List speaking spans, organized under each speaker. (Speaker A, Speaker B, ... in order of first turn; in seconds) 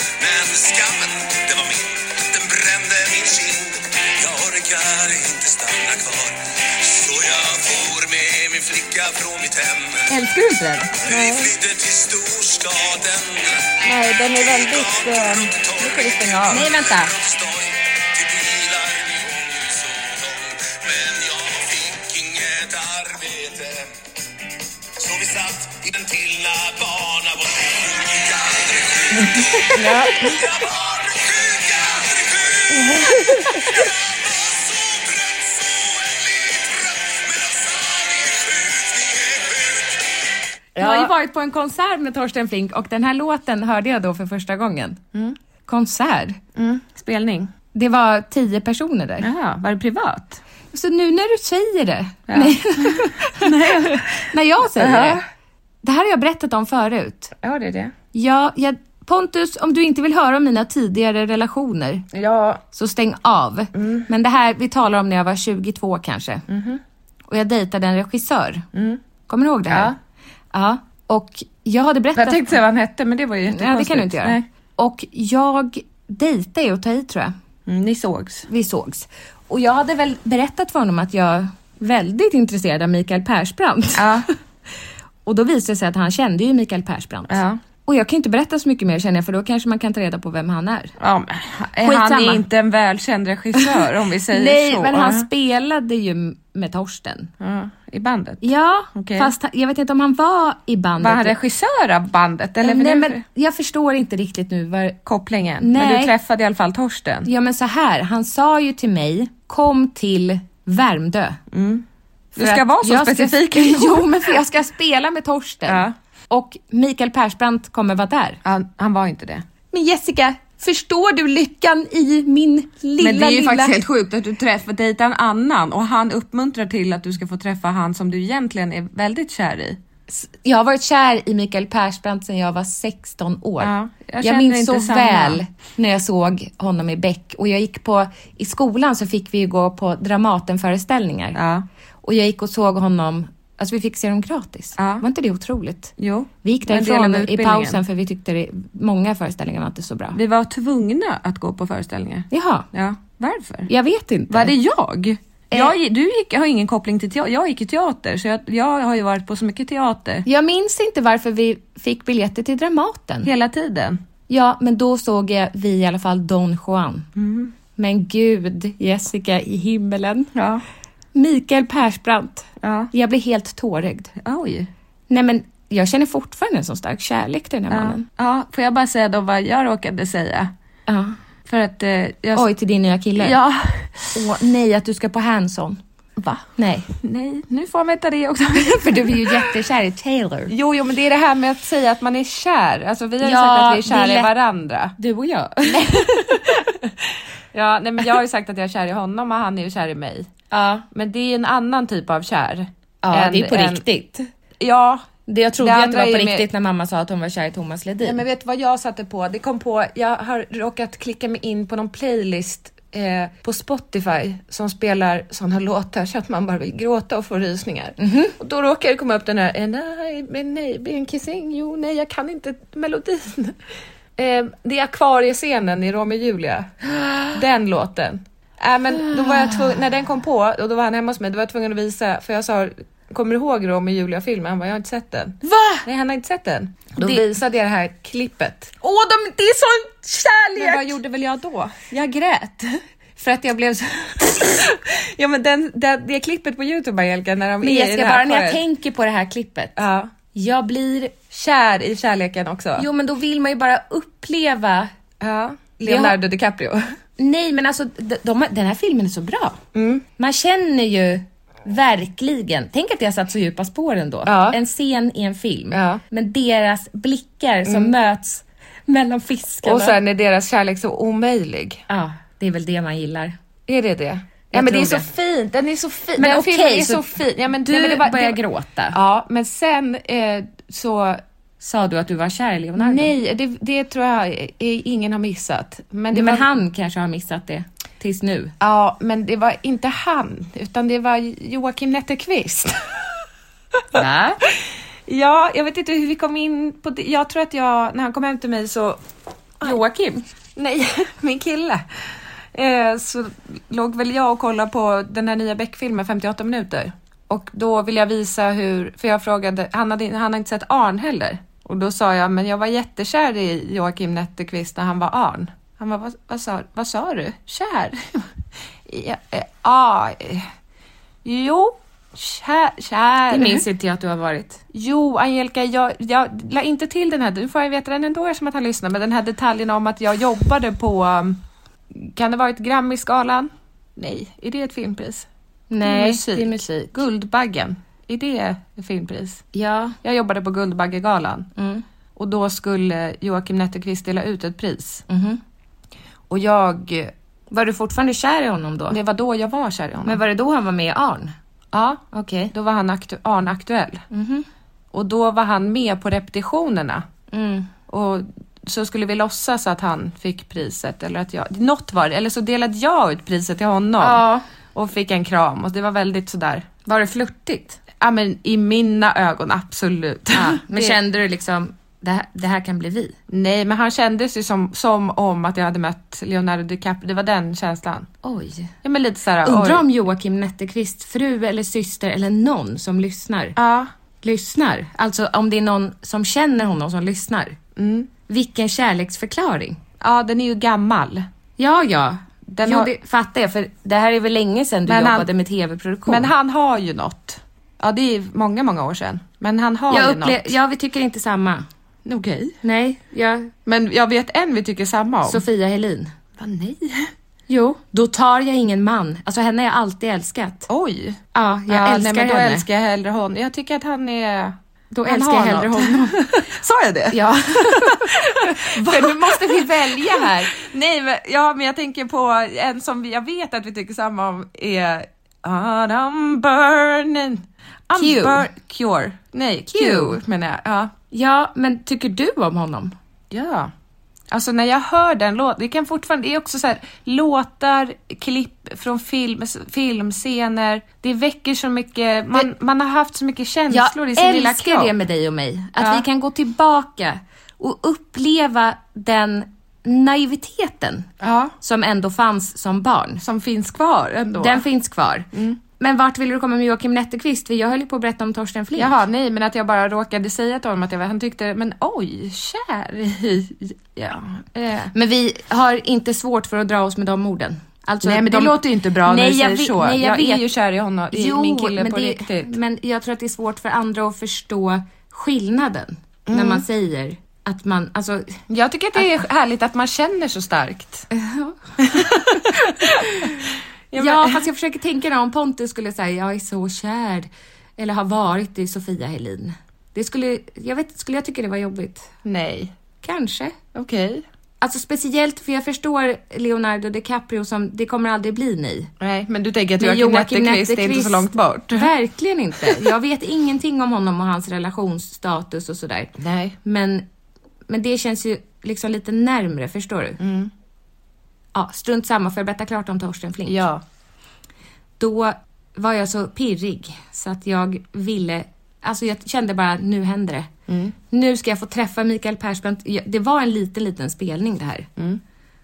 Speaker A: 0.2-10.1, 10.9-23.9, 25.0-40.1
Speaker B: 10.1-10.9, 16.5-17.1, 29.7-30.4, 40.8-45.0, 45.6-46.4, 47.7-49.3, 50.7-55.2, 55.8-57.3, 58.1-62.0, 62.7-66.4, 67.3-68.7, 69.3-69.9, 70.5-72.6, 73.5-77.3, 78.5-84.3, 85.2-90.9, 91.8-92.5, 93.5-97.3, 98.4-101.3, 102.6-105.0, 105.6-106.1, 107.2-111.4, 112.4-118.4, 119.7-123.8, 130.1-141.4, 142.0-150.2, 152.3-152.7, 153.7-154.5, 160.2-163.3, 164.3-167.1, 167.8-170.3, 171.1-174.1, 175.1-178.0, 180.9-181.2, 182.3-183.4, 184.1-185.8, 186.6-186.9, 188.5-190.5, 193.2-194.3, 195.0-196.6, 200.5-200.8, 203.0-204.3, 205.3-208.2, 218.0-218.3, 226.9-227.3, 228.9-229.8, 235.4-235.8, 237.0-237.2, 238.8-240.9, 241.9-242.7, 243.2-244.4, 247.6-249.8, 250.3-251.1, 252.8-254.9, 255.8-256.2, 257.2-259.6, 260.2-270.0, 271.9-273.4, 274.5-275.1, 276.2-279.0, 281.6-283.1, 286.1-288.5, 293.9-294.4, 299.6-300.2, 323.3-324.6, 335.7-336.7, 339.5-340.0, 341.5-341.8, 345.1-345.4, 347.5-349.0, 350.0-351.3, 352.1-352.5, 354.1-354.5, 357.3-357.7, 364.0-364.4, 366.8-367.8, 370.3-373.2, 378.2-378.7, 379.4-383.6, 384.2-387.6, 388.3-389.8, 391.6-396.3, 399.9-401.6, 402.6-403.5, 405.2-406.1, 407.5-410.7, 411.3-412.6, 414.9-416.3, 417.1-420.5, 427.9-428.5, 429.7-430.2, 431.1-432.9, 443.7-451.1, 451.6-453.2, 454.4-455.3, 455.8-458.9, 464.5-470.5, 471.1-478.4, 481.1-483.4, 483.9-492.1, 493.0-493.6, 494.6-498.9, 499.8-507.1, 507.7-510.2, 511.5-513.6, 515.0-520.5, 521.1-524.9
Speaker C: 11.1-11.5, 13.8-16.6, 29.7-30.3, 32.8-33.5, 40.8-41.1, 46.5-47.5, 49.2-50.4, 52.3-55.2, 57.4-57.9, 62.1-62.6, 63.7-64.1, 66.5-66.8, 68.7-69.0, 69.7-70.0, 72.1-74.4, 77.7-78.5, 83.9-84.3, 87.3-87.6, 91.0-95.3, 97.4-99.3, 101.0-103.2, 105.0-107.3, 111.5-111.8, 112.3-114.3, 115.7-115.9, 118.4-119.4, 123.0-129.8, 133.6-135.4, 141.3-141.6, 144.8-145.0, 146.0-147.8, 150.1-153.7, 154.3-160.2, 163.2-164.0, 167.2-167.5, 170.3-170.6, 172.6-172.9, 174.2-174.7, 177.7-180.5, 181.4-182.5, 183.2-184.1, 186.2-186.5, 187.0-189.5, 190.5-194.9, 195.6-196.7, 197.5-200.3, 200.9-203.8, 204.6-205.1, 205.6-206.5, 208.0-223.6, 224.2-226.7, 227.3-238.7, 240.6-241.9, 244.3-248.6, 249.8-250.1, 251.3-252.9, 255.2-256.9, 259.7-260.0, 264.2-264.6, 265.7-266.0, 267.6-267.9, 269.6-271.8, 273.7-278.4, 278.9-281.2, 282.8-286.5, 288.6-293.0, 295.1-299.0, 300.6-318.3, 318.9-320.5, 321.2-323.6, 324.7-331.4, 331.9-335.3, 335.8-339.4, 340.0-341.5, 342.1-345.0, 346.3-347.1, 348.9-350.2, 351.7-354.0, 354.9-357.0, 357.9-364.2, 364.7-366.6, 368.0-371.0, 373.3-378.1, 378.8-379.8, 383.6-383.9, 387.8-388.1, 390.0-391.2, 392.5-392.9, 394.9-395.3, 396.1-400.5, 402.1-402.6, 403.6-405.4, 406.4-407.1, 410.7-430.9, 433.3-433.7, 434.3-444.9, 445.8-446.0, 451.2-451.5, 453.2-454.6, 455.3-455.6, 458.7-464.5, 468.0-472.5, 476.3-476.6, 478.5-481.1, 481.8-483.4, 483.9-484.4, 492.2-492.7, 493.7-494.2, 499.0-501.9, 506.2-506.6, 510.2-510.5, 513.5-513.8, 520.7-520.9